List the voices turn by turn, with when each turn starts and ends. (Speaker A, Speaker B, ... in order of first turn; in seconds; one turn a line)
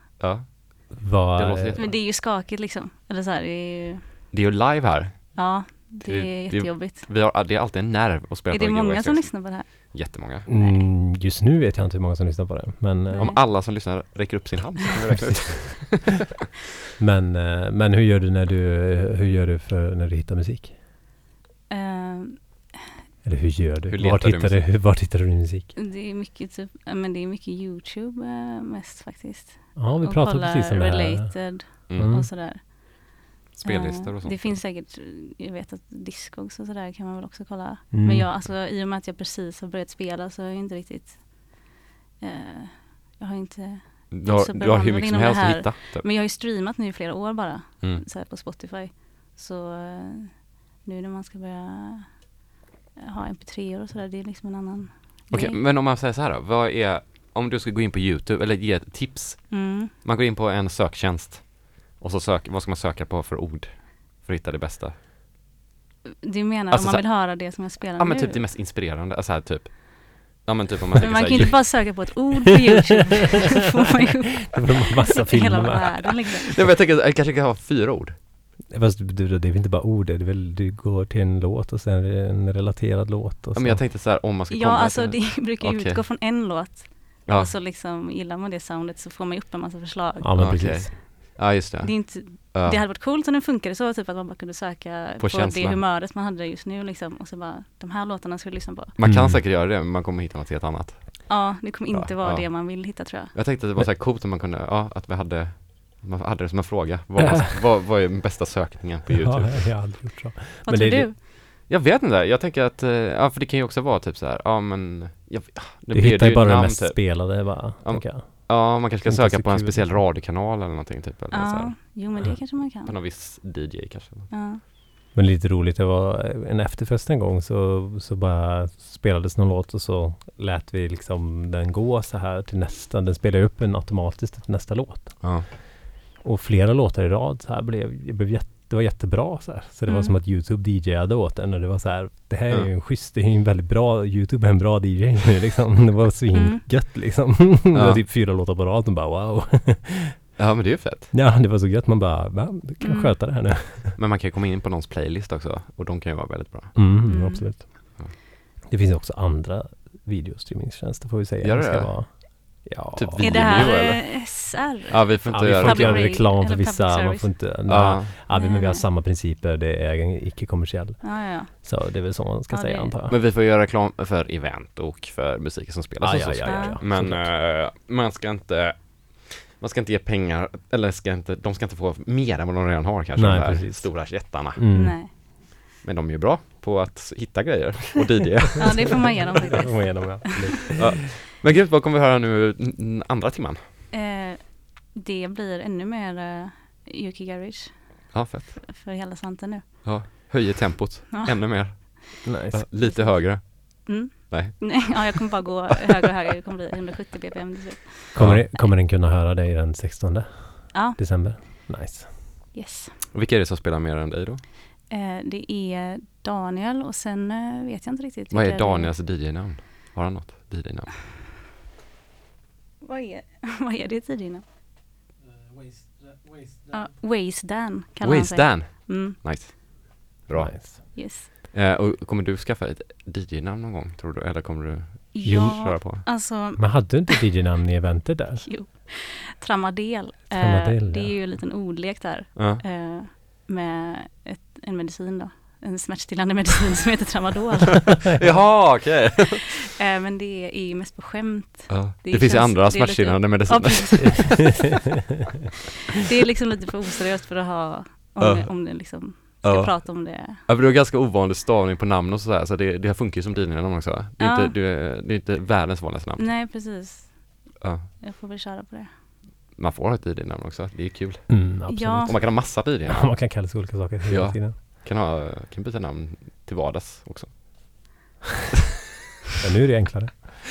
Speaker A: 0.2-1.9
Speaker B: 1.0-1.9
Speaker C: 1.8-4.1
Speaker A: 4.3-10.5
Speaker C: 5.4-7.1
Speaker C: 8.5-10.8
Speaker B: 10.5-13.3
Speaker C: 13.1-13.4
Speaker A: 13.2-16.2
Speaker B: 15.1-16.1
Speaker B: 17.0-20.8
Speaker C: 21.7-22.7
Speaker B: 23.2-25.7
Speaker A: 23.9-24.8
Speaker C: 25.8-33.0
Speaker B: 29.8-32.3
Speaker A: 31.9-32.2
Speaker A: 33.6-34.6
Speaker C: 33.6-41.6
Speaker B: 37.9-38.3
Speaker C: 42.2-52.3
Speaker A: 44.1-46.1
Speaker C: 53.0-55.6
Speaker A: 55.3-65.0
Speaker C: 59.5-59.9
Speaker C: 66.3-68.4
Speaker A: 66.7-71.9
Speaker C: 71.0-74.6
Speaker B: 74.5-76.2
Speaker C: 75.2-76.5
Speaker A: 76.6-78.2
Speaker B: 78.7-83.8
Speaker A: 83.5-86.0
Speaker C: 84.5-90.7
Speaker A: 87.3-87.5
Speaker B: 90.2-91.0
Speaker A: 90.4-92.8
Speaker C: 91.8-98.9
Speaker A: 95.2-95.8
Speaker A: 99.0-109.9
Speaker B: 99.0-99.4
Speaker C: 101.3-103.3
Speaker B: 107.2-107.5
Speaker B: 109.1-111.1
Speaker C: 110.7-111.2
Speaker A: 111.6-124.3
Speaker B: 115.9-120.1
Speaker C: 121.3-122.9
Speaker C: 124.3-124.6
Speaker B: 125.1-135.6
Speaker B: 136.2-150.1
Speaker C: 139.9-140.2
Speaker C: 146.3-146.7
Speaker A: 147.7-148.0
Speaker A: 150.4-151.1
Speaker B: 151.1-154.0
Speaker C: 152.8-153.2
Speaker A: 154.0-157.0
Speaker B: 156.8-158.0
Speaker C: 157.1-157.6
Speaker B: 158.7-163.8
Speaker A: 161.4-166.3
Speaker C: 163.2-167.4
Speaker B: 165.3-173.2
Speaker A: 167.7-168.1
Speaker C: 168.3-168.8
Speaker C: 171.0-171.5
Speaker C: 172.5-172.9
Speaker A: 173.1-184.6
Speaker B: 176.0-177.3
Speaker C: 176.4-176.8
Speaker B: 183.2-185.1
Speaker C: 184.7-185.1
Speaker A: 185.8-189.5
Speaker C: 188.6-190.2
Speaker B: 188.6-191.0
Speaker A: 190.8-193.7
Speaker C: 193.9-199.8
Speaker A: 198.1-198.7
Speaker A: 199.8-205.1
Speaker C: 201.1-201.9
Speaker B: 202.3-202.9
Speaker C: 202.8-208.2
Speaker B: 208.2-212.2
Speaker A: 208.2-208.4
Speaker C: 210.7-211.7
Speaker C: 212.5-212.9
Speaker A: 213.1-214.4
Speaker C: 214.9-218.9
Speaker A: 218.3-220.9
Speaker C: 222.8-224.4
Speaker C: 226.7-229.2
Speaker A: 228.0-236.0
Speaker B: 230.3-230.8
Speaker C: 230.9-231.3
Speaker C: 235.2-237.2
Speaker B: 235.2-235.6
Speaker B: 236.6-238.5
Speaker C: 238.4-248.0
Speaker B: 240.3-241.1
Speaker A: 242.4-242.6
Speaker A: 248.2-249.4
Speaker C: 249.8-254.5
Speaker A: 251.7-254.5
Speaker C: 256.1-260.4
Speaker A: 258.2-266.3
Speaker C: 264.2-264.5
Speaker C: 266.2-268.9
Speaker A: 267.6-267.9
Speaker A: 269.5-273.4
Speaker B: 271.3-274.6
Speaker C: 271.7-272.1
Speaker A: 274.1-277.9
Speaker B: 279.4-280.2